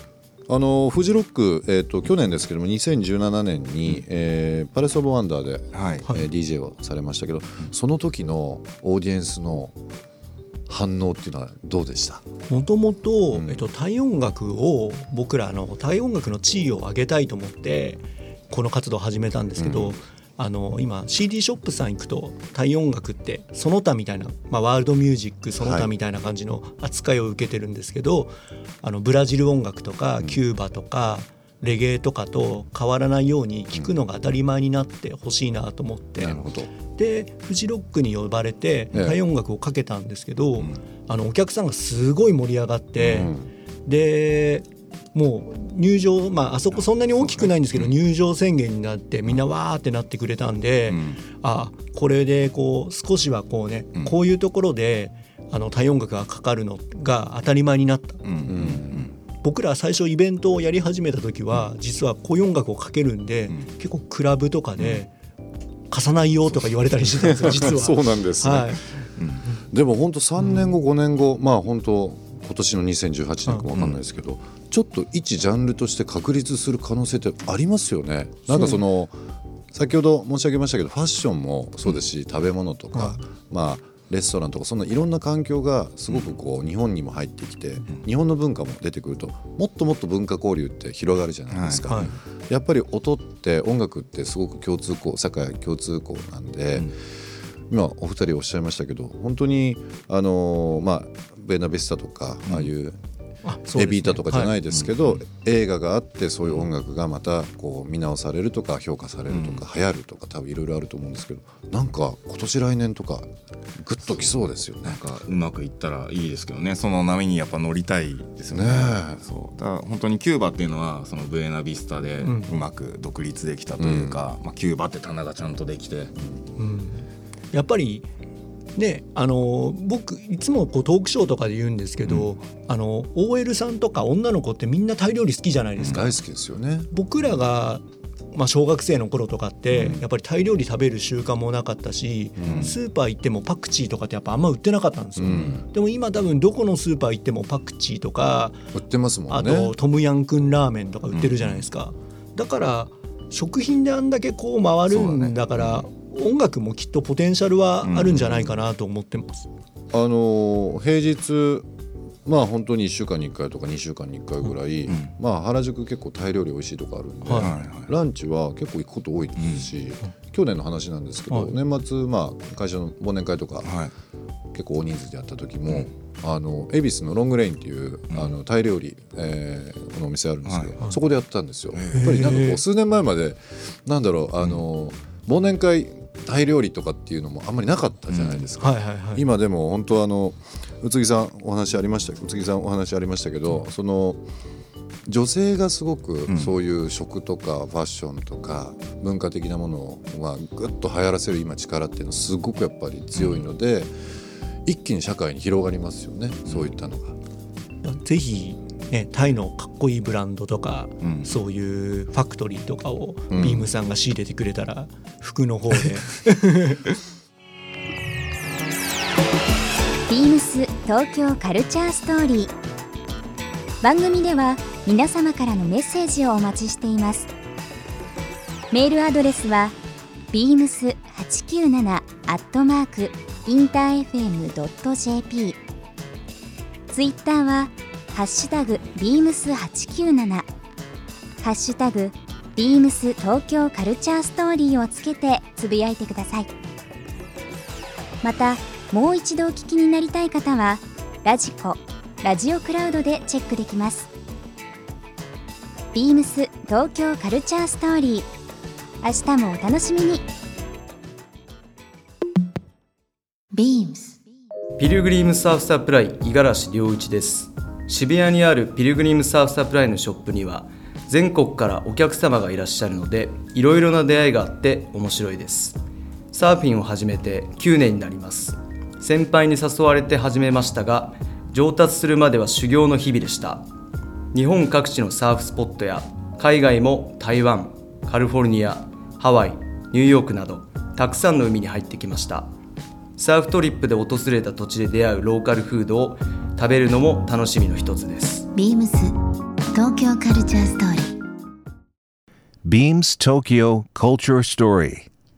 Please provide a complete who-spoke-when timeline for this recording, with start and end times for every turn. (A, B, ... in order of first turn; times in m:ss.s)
0:00.5-0:09.8 A
0:05.7-0:06.1 B
0:10.7-0:12.2 A
0:12.5-0:43.3 C
0:13.3-0:13.7 A
0:19.6-0:20.0 A
0:25.6-0:25.9 A
0:36.2-0:36.7 A
0:43.1-0:43.5 A
0:43.8-0:58.2 C
0:46.8-0:47.9 B
0:50.9-0:51.2 B
0:58.2-0:59.1 B
0:58.4-0:59.1 A
0:59.4-1:05.1 C
1:04.8-1:05.0 B
1:05.9-1:08.8 C
1:07.1-1:07.6 B
1:07.3-1:08.8 A
1:09.0-1:09.4 B
1:09.7-1:19.2 A
1:13.8-1:14.0 B
1:18.5-1:18.8 C
1:19.7-1:36.9 A
1:22.9-1:23.2 C
1:26.1-1:26.3 B
1:31.5-1:32.2 B
1:37.7-1:43.0 A
1:42.4-1:42.7 B
1:43.4-1:44.6 C
1:43.7-1:55.0 A
1:44.7-1:45.2 B
1:49.3-1:49.6 B
1:54.0-2:06.1 B
1:58.5-1:59.2 A
2:02.2-2:02.5 C
2:03.8-2:04.2 A
2:06.6-2:08.0 C
2:08.8-2:16.2 C
2:12.0-2:12.3 B
2:15.8-2:16.0 B
2:15.8-2:16.9 A
2:16.9-2:17.8 C
2:18.3-2:28.6 C
2:22.4-2:22.7 A
2:22.4-2:22.8 B
2:25.2-2:25.6 A
2:28.7-2:29.7 A
2:29.3-2:39.5 C
2:31.1-2:31.6 B
2:34.9-2:35.9 B
2:37.8-2:38.6 B
2:39.9-2:41.7 A
2:42.2-2:53.7 A
2:44.9-2:45.1 B
2:47.2-2:47.5 C
2:47.4-2:47.9 B
2:49.4-2:49.7 B
2:51.3-2:51.6 C
2:53.6-2:53.9 B
2:54.5-3:14.2 A
3:00.4-3:00.8 B
3:01.7-3:02.1 B
3:01.9-3:02.6 C
3:08.1-3:08.5 B
3:08.6-3:09.2 C
3:15.1-3:24.1 A
3:16.3-3:16.5 B
3:23.1-3:23.4 B
3:24.6-3:27.2 A
3:26.4-3:26.7 B
3:27.8-3:37.0 C
3:31.0-3:31.3 B
3:33.3-3:33.7 A
3:40.1-3:42.5 D
3:43.8-3:47.3 D
3:48.7-3:49.7 D
3:50.3-3:55.6 D
3:56.9-4:00.5 D
4:01.4-4:06.5 D
4:08.2-4:14.1 D
4:15.9-4:18.3 D
4:19.0-4:20.2 D
4:23.5-4:24.2 E
4:24.8-4:35.8 F
4:36.3-4:43.7 F
4:44.3-4:52.5 F
4:53.2-4:58.5 F
4:58.5-4:59.1 E
4:59.7-5:01.2 E
5:02.6-5:05.1 G